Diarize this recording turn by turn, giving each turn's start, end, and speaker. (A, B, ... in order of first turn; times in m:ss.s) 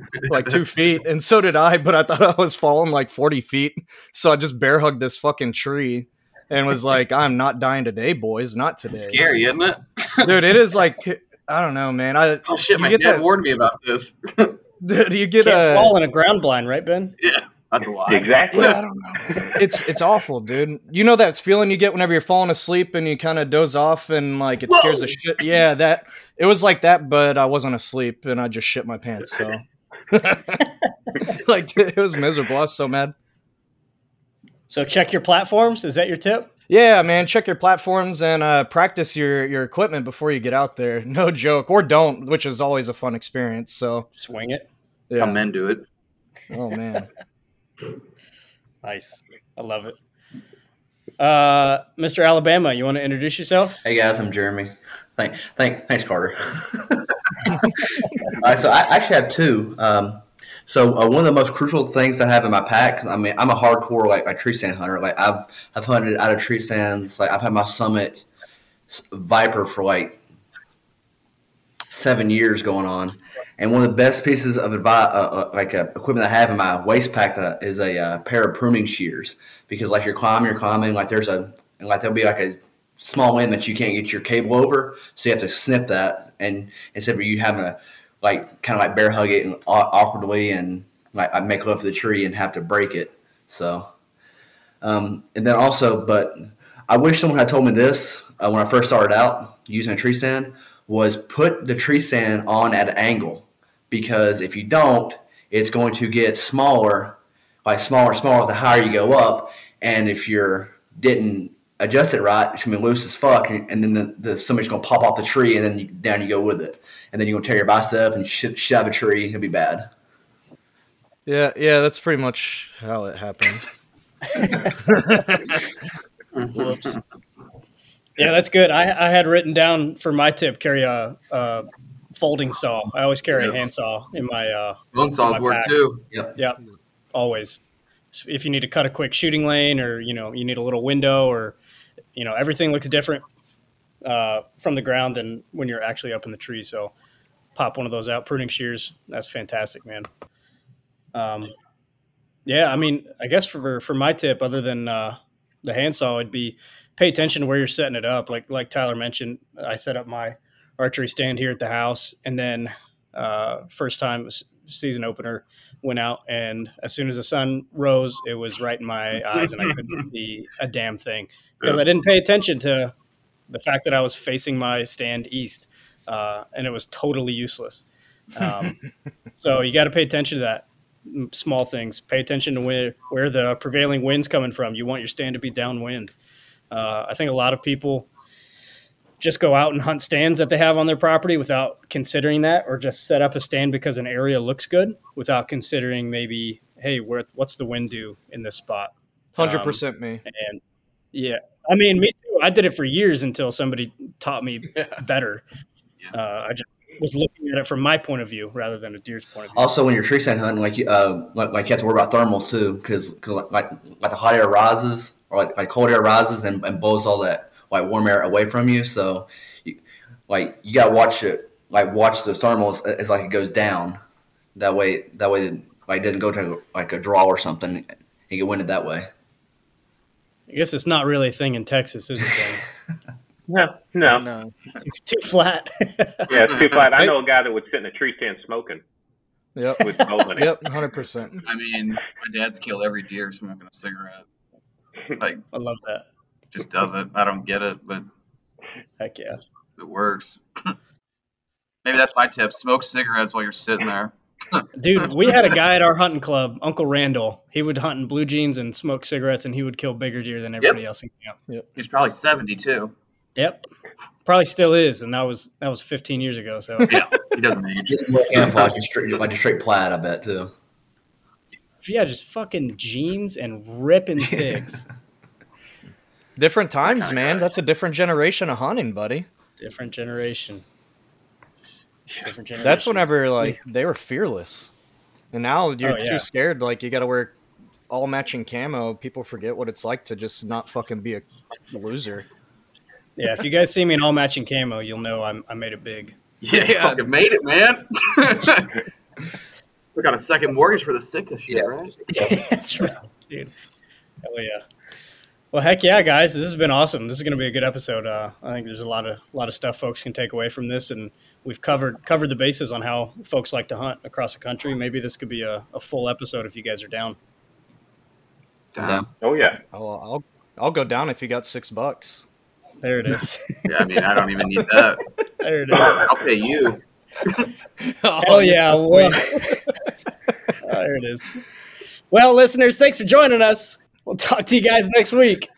0:00.2-0:00.5 A
0:00.3-0:09.2 B
0:08.9-0:10.5 A
0:10.2-0:13.2 B
0:12.4-0:14.6 A
0:14.8-0:15.9 B
0:15.4-0:17.1 C
0:17.2-0:18.8 A
0:18.1-0:18.7 D
0:18.5-0:30.6 B
0:24.7-0:25.1 A
0:31.2-0:33.1 B
0:34.7-0:36.5 C
0:36.7-0:44.1 B
0:44.2-0:44.7 C
0:45.1-0:45.4 B
0:45.1-0:45.8 A
0:46.5-0:47.1 B
0:48.8-0:50.0 C
0:51.2-0:53.8 C
0:53.8-1:08.3 E
1:08.9-1:10.2 E
1:11.9-1:33.9 E
1:34.8-1:59.9 E
2:01.2-2:03.7 B
2:04.8-2:05.6 B
2:06.3-2:07.0 A
2:06.6-2:06.9 B
2:08.2-2:15.8 C
2:14.9-2:16.0 A
2:17.1-2:17.6 C
2:18.1-2:21.6 C
2:22.1-2:23.2 C
2:24.0-2:26.9 C
2:27.5-2:30.1 C
2:31.1-2:31.5 C
2:32.4-2:52.9 C
2:53.5-2:58.8 C
2:59.3-3:06.1 C
3:06.7-3:08.1 C
3:09.2-3:20.6 C
3:19.4-3:20.2 B
3:21.1-3:25.4 C
3:26.1-3:29.7 C
3:29.5-3:44.0 E
3:44.6-3:49.1 E
3:50.5-3:52.6 C
3:53.5-3:54.2 D
3:54.1-3:54.5 B
3:54.8-3:56.3 C
3:56.3-3:56.9 A
3:56.3-3:58.8 D
3:59.5-4:01.4 B
3:59.8-4:00.5 D
4:01.4-4:04.2 A
4:05.2-4:05.4 A
4:05.5-4:06.1 C
4:06.5-4:08.0 A
4:09.0-4:09.4 C
4:09.8-4:10.7 A
4:11.8-4:15.1 A
4:14.8-4:21.4 C
4:21.8-4:22.9 A
4:23.4-4:23.6 C
4:24.2-4:26.9 C
4:26.9-4:28.7 A
4:27.9-4:30.5 E
4:31.8-4:34.8 C
4:36.4-4:39.2 B
4:36.8-4:37.5 A
4:39.6-4:40.6 C
4:42.1-4:42.8 A
4:42.2-4:43.6 C
4:42.6-4:44.7 B
4:45.3-4:47.4 B
4:45.8-4:46.3 C
4:47.9-4:52.3 B
4:53.2-4:56.2 C
4:56.4-4:58.7 A
4:56.5-4:57.0 B
4:59.9-5:02.0 A
5:02.1-5:03.5 C
5:04.2-5:04.6 C
5:05.5-5:17.2 C
5:18.7-5:19.1 A
5:18.8-5:19.0 E
5:19.2-5:19.6 D
5:19.7-5:22.3 B
5:22.8-5:23.7 C
5:23.6-5:25.0 A
5:25.4-5:26.0 C
5:25.7-5:26.8 A
5:27.8-5:29.6 B
5:28.2-5:29.6 C
5:30.6-5:31.3 C
5:32.1-5:35.5 C